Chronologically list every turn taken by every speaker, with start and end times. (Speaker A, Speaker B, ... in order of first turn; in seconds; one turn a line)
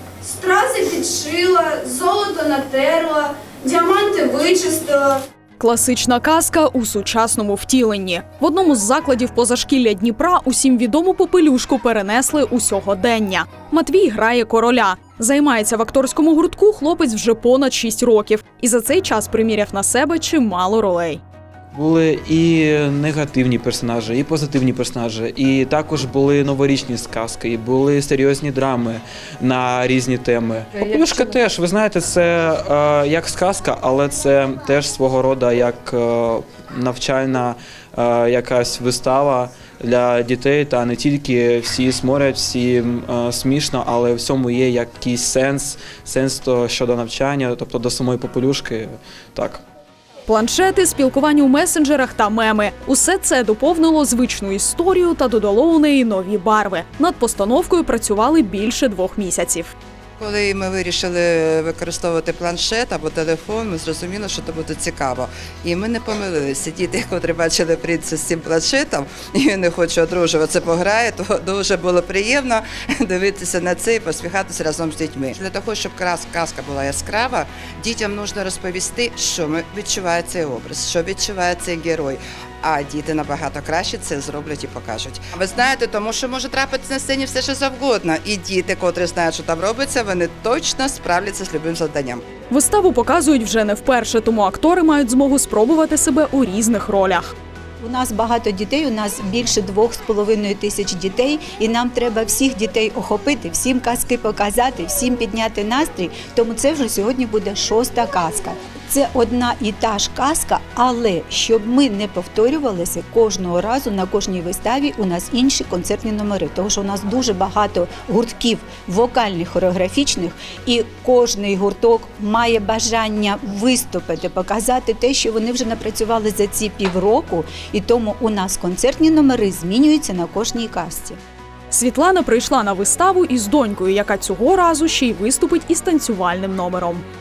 Speaker A: 0.2-5.2
Speaker B: 5.6-21.2
Speaker C: 21.7-49.6
Speaker B: 50.3-59.7
Speaker D: 60.2-92.2
Speaker B: 92.5-97.3
Speaker E: 97.8-131.2
Speaker B: 131.7-137.0